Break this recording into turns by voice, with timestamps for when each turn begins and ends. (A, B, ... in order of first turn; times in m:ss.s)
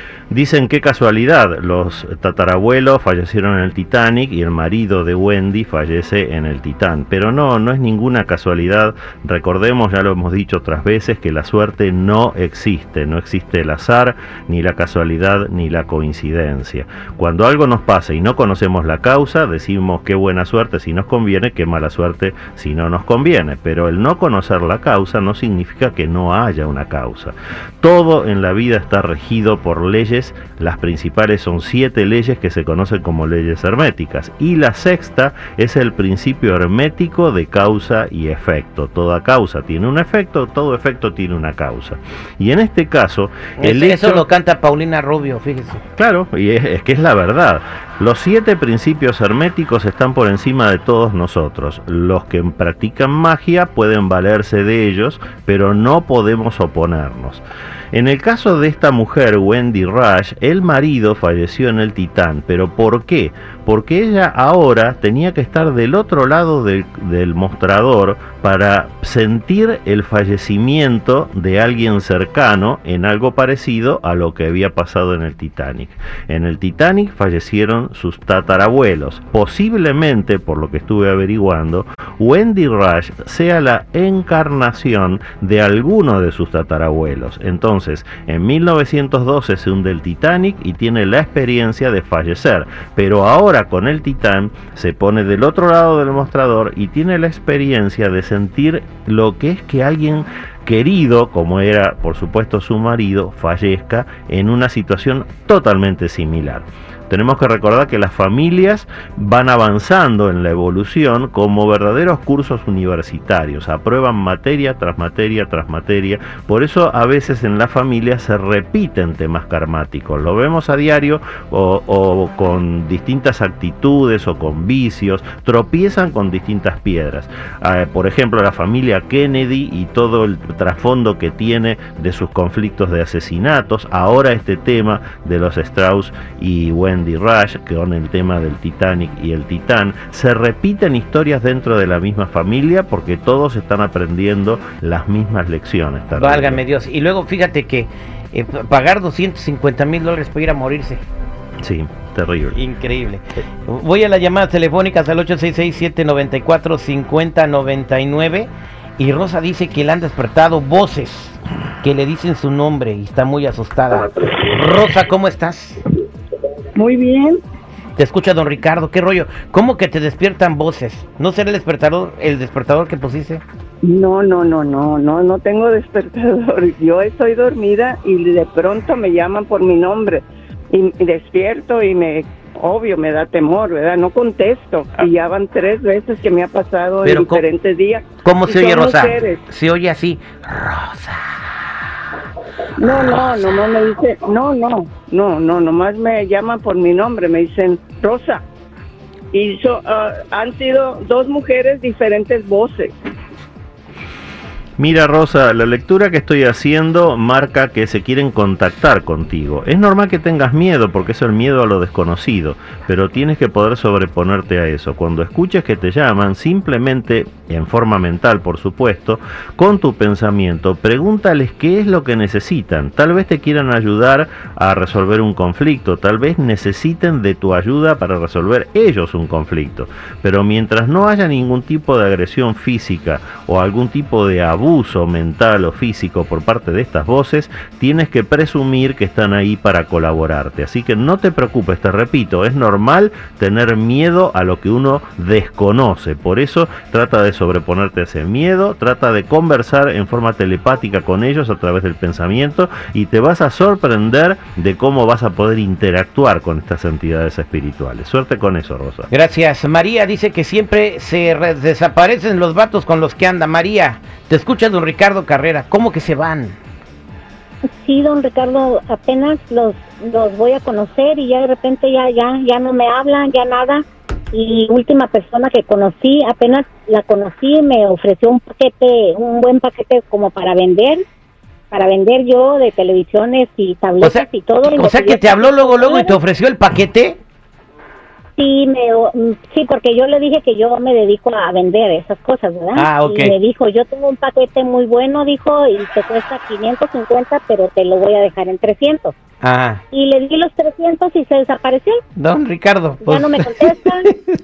0:00.3-0:44.2 A
0:43.6-0:45.8 B
0:46.0-2:26.6 A
2:26.1-2:31.0 B
2:31.6-2:32.6 A
2:32.5-2:45.8 B
2:46.7-2:47.4 C
2:48.0-2:53.4 B
2:53.8-3:09.4 C
3:07.0-3:07.4 B
3:08.2-3:11.2 B
3:12.8-3:18.4 C
3:13.0-3:13.4 B
3:19.3-3:22.9 C
3:24.8-4:19.1 A
4:19.1-4:26.6 B
4:27.7-4:41.0 D
4:41.7-4:46.2 D
4:44.0-4:47.2 B
4:48.4-4:59.2 D
4:52.7-4:53.3 B
4:59.4-4:59.8 B
4:59.9-5:02.0 D
5:02.2-5:04.3 B
5:03.0-5:04.1 D